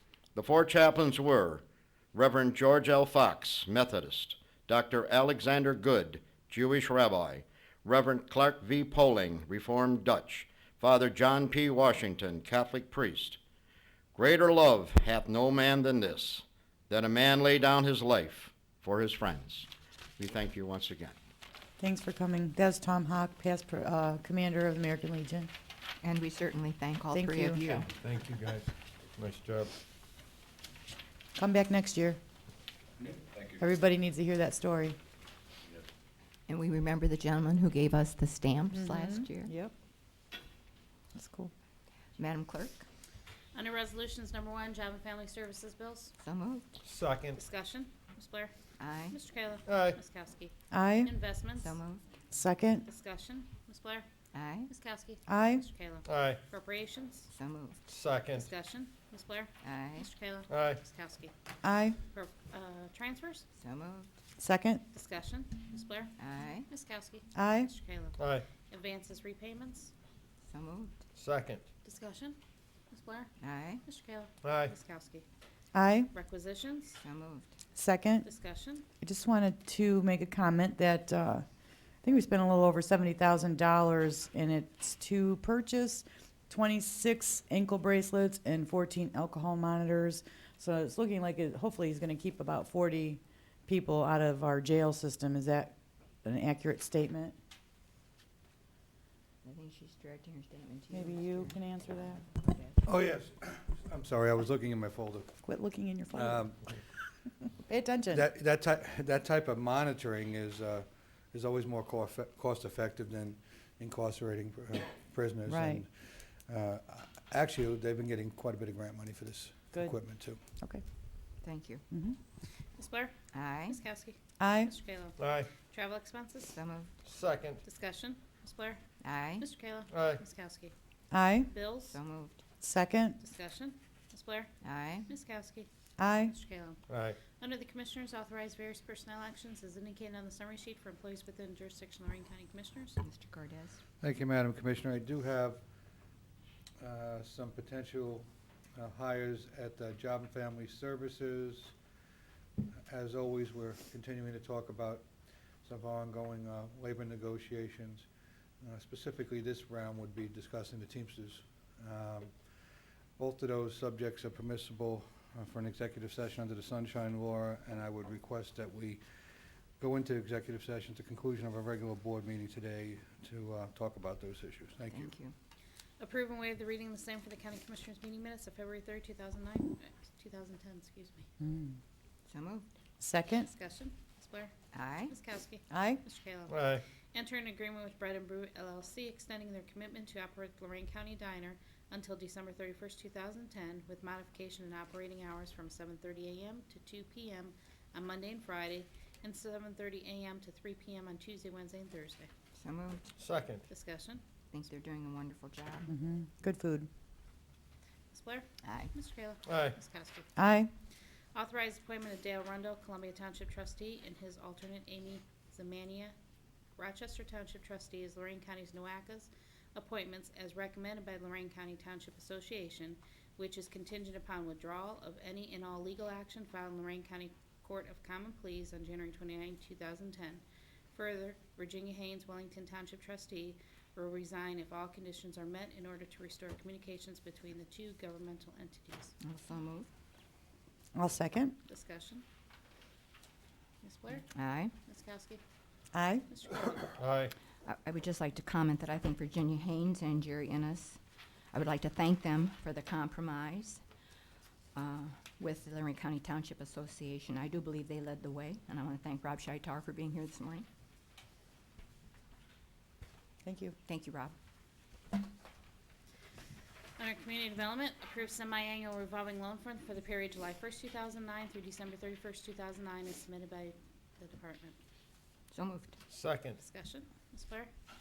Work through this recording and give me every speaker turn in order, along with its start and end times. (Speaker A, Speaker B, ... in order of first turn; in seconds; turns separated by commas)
Speaker A: 0.3-1.6, Speaker A: 2.1-13.4, Speaker A: 14.1-21.1, Speaker B: 21.8-25.5, Speaker C: 26.0-27.9, Speaker B: 27.1-27.9, Speaker D: 28.0-29.7, Speaker B: 31.4-32.2, Speaker B: 33.5-35.0, Speaker C: 36.5-39.5, Speaker B: 38.7-39.7, Speaker B: 41.1-41.5, Speaker C: 42.2-42.9, Speaker E: 43.5-46.1, Speaker C: 46.2-46.8, Speaker D: 46.8-47.4, Speaker E: 47.3-48.5, Speaker C: 48.8-49.2, Speaker E: 49.1-50.5, Speaker D: 49.6-50.0, Speaker B: 50.7-51.1, Speaker E: 51.0-51.8, Speaker C: 51.6-52.0, Speaker B: 52.3-52.9, Speaker E: 52.8-54.1, Speaker C: 54.3-54.7, Speaker E: 54.7-57.3, Speaker B: 55.3-55.7, Speaker D: 56.0-56.4, Speaker C: 57.3-57.8, Speaker D: 57.9-58.5, Speaker E: 58.3-61.3, Speaker C: 59.6-60.1, Speaker D: 60.5-60.8, Speaker B: 61.6-62.0, Speaker E: 62.1-63.5, Speaker C: 63.5-64.1, Speaker B: 64.4-64.8, Speaker E: 64.9-66.1, Speaker C: 66.2-66.7, Speaker E: 66.7-69.9, Speaker B: 67.3-67.7, Speaker D: 68.2-68.5, Speaker C: 70.5-71.0, Speaker D: 71.2-71.7, Speaker E: 71.8-72.4, Speaker E: 72.9-75.2, Speaker C: 73.4-73.8, Speaker D: 74.4-74.7, Speaker B: 75.7-76.1, Speaker E: 76.1-77.0, Speaker C: 77.0-77.5, Speaker B: 77.7-78.3, Speaker E: 78.2-78.8, Speaker B: 79.0-81.4, Speaker B: 82.0-97.4, Speaker C: 99.4-102.8, Speaker B: 100.9-102.3, Speaker F: 102.8-105.3, Speaker B: 105.4-106.5, Speaker F: 106.1-106.7, Speaker B: 107.5-108.3, Speaker F: 108.1-115.9, Speaker B: 115.5-115.8, Speaker F: 116.5-120.4, Speaker B: 119.7-120.0, Speaker C: 121.4-121.8, Speaker B: 121.9-122.2, Speaker E: 122.8-123.1, Speaker C: 123.3-123.8, Speaker E: 123.7-126.6, Speaker B: 124.4-124.7, Speaker D: 125.2-125.5, Speaker C: 126.5-126.9, Speaker D: 127.0-127.6, Speaker E: 127.6-128.8, Speaker C: 129.0-129.5, Speaker E: 129.4-130.7, Speaker D: 129.9-130.2, Speaker B: 131.1-131.5, Speaker E: 131.5-132.0, Speaker C: 131.9-132.4, Speaker B: 132.6-133.2, Speaker E: 133.2-134.5, Speaker C: 134.6-135.1, Speaker E: 135.1-135.7, Speaker B: 136.0-136.3, Speaker E: 136.2-143.0, Speaker D: 136.9-137.2, Speaker C: 143.0-143.8, Speaker F: 144.0-145.6, Speaker F: 146.8-151.7, Speaker F: 152.9-155.1, Speaker F: 155.6-158.1, Speaker F: 158.6-162.3, Speaker F: 163.2-169.0, Speaker F: 169.8-175.1, Speaker C: 174.9-175.3, Speaker E: 176.0-181.3, Speaker B: 181.4-181.8, Speaker C: 182.2-182.7, Speaker B: 183.0-183.5, Speaker E: 183.4-184.5, Speaker C: 184.7-185.2, Speaker E: 185.1-202.3, Speaker B: 185.7-186.0, Speaker D: 186.5-186.8, Speaker C: 202.6-203.0, Speaker D: 203.2-203.7, Speaker E: 203.7-204.2, Speaker C: 204.5-205.9, Speaker B: 205.9-206.9, Speaker E: 208.1-210.2, Speaker C: 208.6-208.9, Speaker D: 209.5-209.8, Speaker B: 210.3-210.7, Speaker E: 211.3-216.1, Speaker E: 216.8-239.1, Speaker C: 239.2-239.9, Speaker B: 240.9-241.6, Speaker E: 241.7-242.2, Speaker E: 243.8-245.4, Speaker C: 244.2-244.7, Speaker B: 245.9-246.3, Speaker E: 246.3-246.9, Speaker D: 247.0-247.3, Speaker C: 247.6-251.0, Speaker C: 251.5-253.8, Speaker C: 254.7-260.6, Speaker B: 263.4-263.8, Speaker C: 263.9-264.3, Speaker E: 267.0-274.8, Speaker C: 275.5-276.0, Speaker D: 276.1-276.6, Speaker E: 276.6-277.7